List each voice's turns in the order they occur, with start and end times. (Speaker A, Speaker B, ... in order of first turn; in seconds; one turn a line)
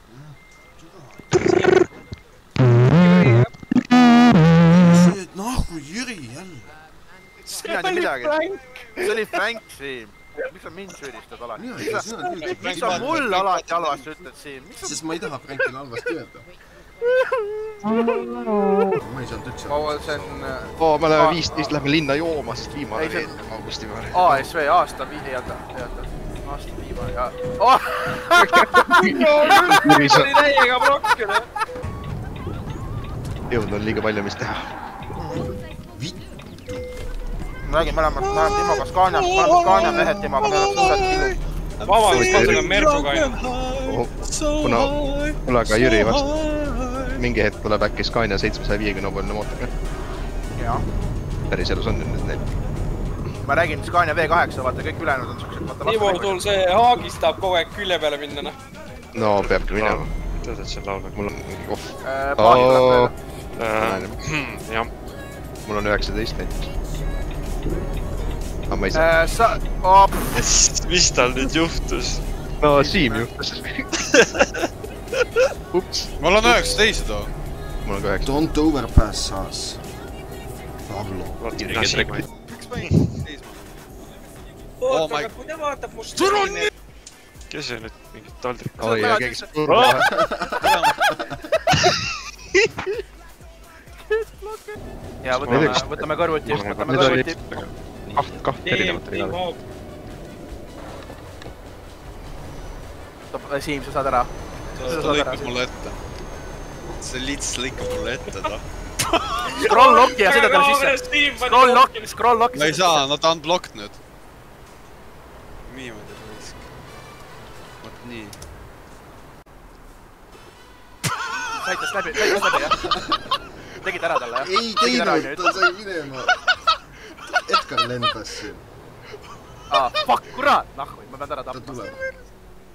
Speaker A: 0.1-1.2
Speaker B: 1.3-1.7
Speaker B: 2.9-3.5
Speaker A: 4.7-6.7
Speaker B: 7.5-9.2
Speaker C: 7.5-8.4
Speaker C: 9.0-15.1
Speaker A: 11.6-13.4
Speaker B: 12.0-12.5
Speaker D: 12.3-14.0
Speaker A: 14.8-16.5
Speaker C: 17.4-18.0
Speaker E: 18.1-18.8
Speaker A: 18.9-20.2
Speaker C: 19.7-21.7
Speaker E: 20.8-24.5
Speaker C: 22.9-23.3
Speaker C: 24.1-29.1
Speaker E: 28.4-30.3
Speaker B: 29.0-31.5
Speaker E: 33.5-34.7
Speaker A: 35.9-36.9
Speaker C: 37.6-41.4
Speaker D: 38.2-47.2
Speaker B: 41.8-43.4
Speaker E: 42.1-42.7
Speaker E: 43.8-46.3
Speaker E: 47.1-49.7
Speaker C: 50.5-50.8
Speaker E: 51.5-52.4
Speaker C: 53.4-56.5
Speaker B: 55.8-58.5
Speaker E: 59.1-60.1
Speaker F: 59.7-61.1
Speaker E: 61.1-63.1
Speaker C: 62.0-63.1
Speaker F: 63.6-64.9
Speaker E: 63.7-64.2
Speaker E: 65.7-66.7
Speaker E: 68.7-69.1
Speaker C: 68.9-70.1
Speaker F: 70.3-72.2
Speaker E: 72.6-73.9
Speaker C: 72.8-73.3
Speaker E: 75.7-76.8
Speaker D: 76.2-77.3
Speaker E: 77.8-78.5
Speaker A: 78.2-79.8
Speaker A: 80.9-82.1
Speaker F: 81.4-82.2
Speaker E: 81.5-82.1
Speaker D: 82.5-83.8
Speaker B: 84.8-86.7
Speaker D: 84.8-85.4
Speaker D: 86.1-86.7
Speaker F: 87.5-89.0
Speaker C: 88.8-89.8
Speaker E: 88.8-90.1
Speaker F: 89.7-89.9
Speaker A: 90.0-91.3
Speaker D: 90.6-91.0
Speaker C: 94.4-97.7
Speaker E: 95.3-97.3
Speaker F: 95.5-95.8
Speaker F: 96.5-98.2
Speaker E: 98.1-99.4
Speaker B: 98.6-99.6
Speaker C: 103.3-105.5
Speaker D: 104.7-106.0
Speaker D: 106.9-108.6
Speaker C: 109.6-113.1
Speaker B: 109.6-112.1
Speaker D: 112.5-114.0
Speaker D: 115.7-116.6
Speaker D: 117.8-118.4
Speaker C: 121.5-122.8
Speaker A: 122.8-123.2
Speaker C: 123.8-125.6
Speaker A: 124.4-126.3
Speaker A: 127.4-128.6
Speaker C: 129.7-132.0
Speaker A: 131.5-132.0